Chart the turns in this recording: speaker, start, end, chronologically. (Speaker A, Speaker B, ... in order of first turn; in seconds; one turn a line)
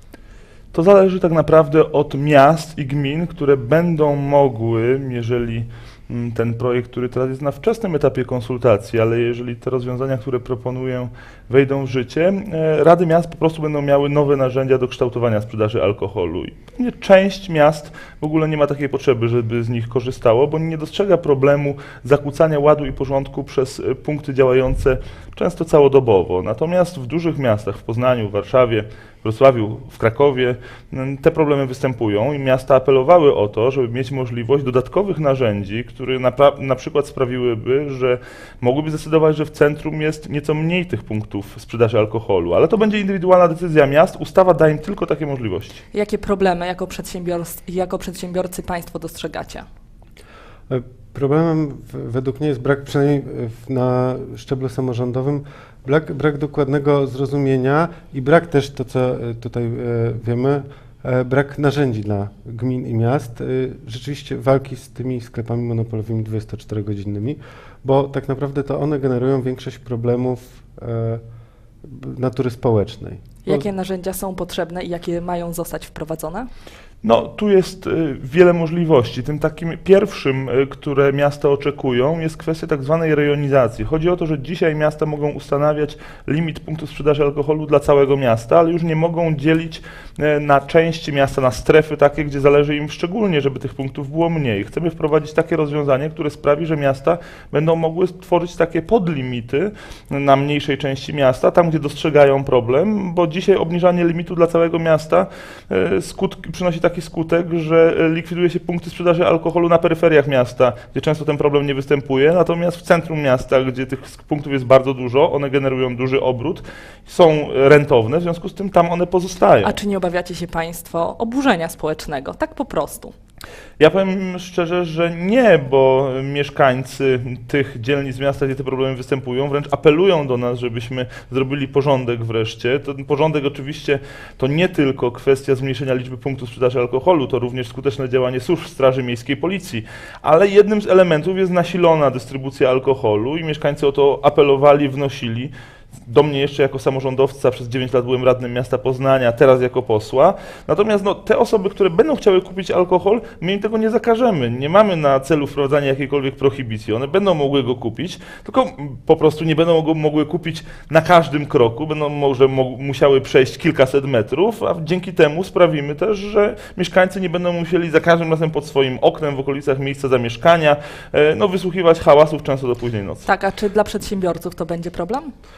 Speaker A: 0.7-45.8
Speaker B: 45.9-49.6
Speaker C: 50.7-71.2
Speaker C: 71.8-73.7
Speaker B: 73.4-76.5
Speaker A: 77.0-119.8
Speaker B: 119.6-123.1
Speaker A: 123.8-173.2
Speaker B: 173.2-175.3